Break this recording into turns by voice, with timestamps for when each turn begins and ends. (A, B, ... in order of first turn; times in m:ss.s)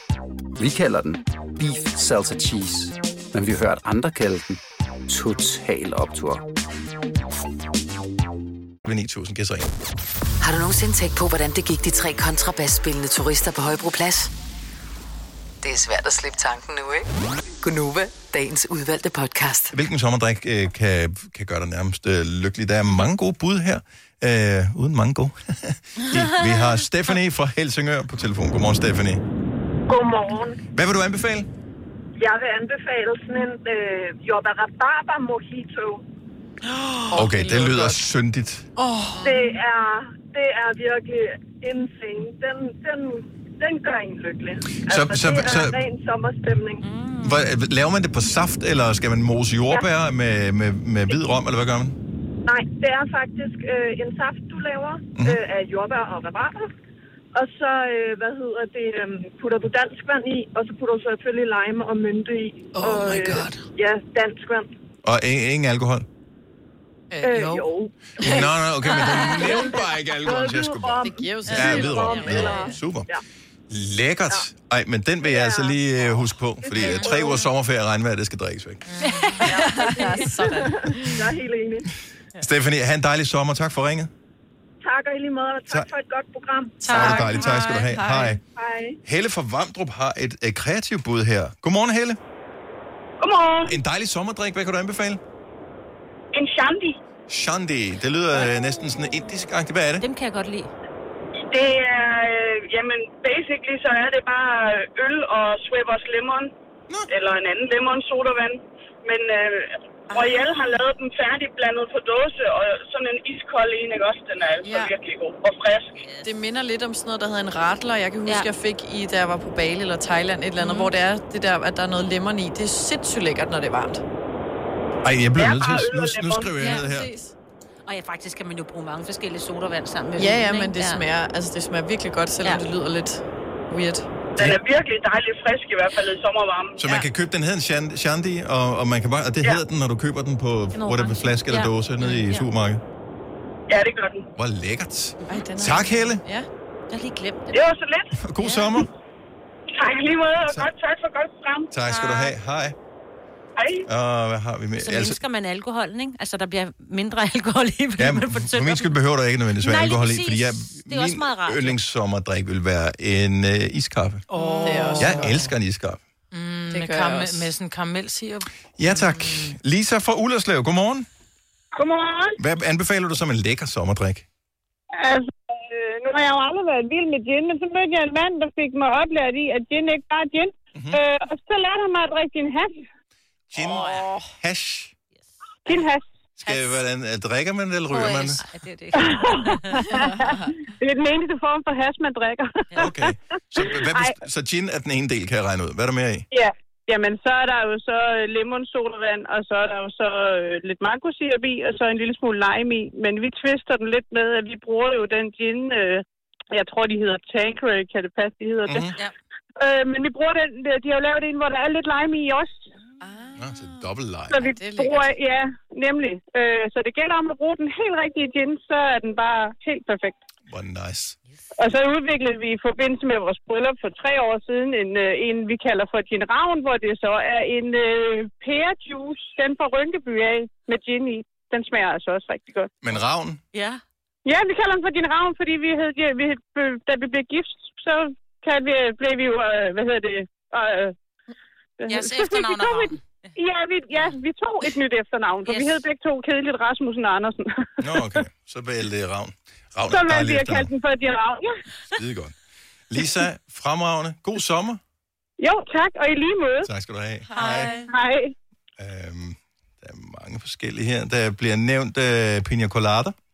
0:00.6-0:06.4 A
0:08.8-0:09.7 B
0:10.4-0:14.3 C
0:15.6-0:17.0 C
0:17.6-0:19.7 C
0:19.7-0:29.2 B
0:29.9-0:30.6 D
0:30.7-0:31.5 B
0:32.2-0:36.0 D
0:36.6-0:38.0 E
0:37.1-0:38.7 B
0:38.8-0:39.4 E
0:39.2-0:46.8 D
0:44.8-0:45.8 B
0:47.2-0:52.0 B
0:52.5-0:56.7 D
0:55.2-0:55.4 B
0:57.3-1:04.7 D
1:05.0-1:06.0 B
1:07.1-1:07.7 E
1:07.2-1:08.4 D
1:08.2-1:13.1 B
1:08.2-1:09.7 E
1:09.0-1:13.2 D
1:11.0-1:12.8 E
1:13.7-1:18.8 B
1:15.2-1:16.1 D
1:16.6-1:17.4 D
1:16.8-1:17.2 F
1:18.9-1:20.0 F
1:19.4-1:21.4 E
1:19.4-1:21.9 D
1:22.4-1:24.1 B
1:24.8-1:27.3 D
1:26.8-1:28.3 E
1:26.8-1:28.0 F
1:26.9-1:28.4 B
1:28.3-1:29.0 D
1:29.0-1:32.2 B
1:33.2-1:33.7 G
1:33.6-1:35.2 B
1:36.3-1:37.0 G
1:37.3-1:40.0 B
1:38.4-1:39.1 H
1:40.0-1:40.7 H
1:41.5-1:46.5 G
1:47.1-1:55.9 G
1:50.1-1:50.4 E
1:54.6-1:54.9 E
1:55.9-1:56.3 H
1:56.2-2:04.0 E
2:00.6-2:00.9 H
2:05.0-2:07.1 B
2:05.4-2:06.7 G
2:06.6-2:06.8 H
2:06.7-2:07.3 E
2:07.8-2:11.0 H
2:10.2-2:14.3 E
2:14.4-2:17.0 G
2:16.8-2:22.8 B
2:20.7-2:22.4 H
2:23.7-2:24.2 G
2:24.4-2:26.2 B
2:25.3-2:26.5 E
2:26.9-2:27.6 H
2:27.5-2:28.1 G
2:28.1-2:28.9 B
2:28.4-2:28.8 H
2:29.7-2:31.7 G
2:31.7-2:32.8 B
2:31.9-2:32.3 H
2:33.6-2:33.8 G
2:33.8-2:35.2 B
2:34.8-2:39.0 H
2:38.0-2:44.2 B
2:39.6-2:41.8 H
2:44.3-2:45.5 F
2:44.4-2:44.9 H
2:44.6-2:45.3 E
2:45.0-2:46.0 B
2:46.3-2:49.5 F
2:46.7-2:47.5 E
2:48.8-2:51.1 B
2:51.7-2:52.4 G
2:52.4-2:54.2 B
2:54.9-3:02.8 G
3:03.5-3:04.9 B
3:03.6-3:04.2 E
3:03.7-3:04.1 H
3:05.6-3:06.0 G
3:06.4-3:08.4 B
3:06.5-3:06.8 H
3:07.9-3:10.1 H
3:09.0-3:13.1 G
3:09.8-3:10.4 E
3:12.8-3:16.3 B
3:16.3-3:28.9 G
3:28.7-3:28.9 B
3:29.6-3:32.6 G
3:33.0-3:35.1 E
3:33.4-3:34.4 B
3:34.3-3:40.2 G
3:40.5-3:41.2 B
3:41.6-3:52.7 G
3:52.8-3:53.4 B
3:53.5-3:53.8 H
3:54.2-4:00.9 G
4:01.8-4:07.7 G
4:01.9-4:03.0 F
4:05.5-4:05.8 H
4:07.8-4:10.7 B
4:09.9-4:11.6 G
4:11.9-4:12.4 B
4:12.9-4:14.8 B
4:15.4-4:16.7 G
4:16.6-4:17.7 B
4:17.4-4:17.9 F
4:17.4-4:17.6 E
4:17.9-4:18.3 G
4:18.8-4:23.1 B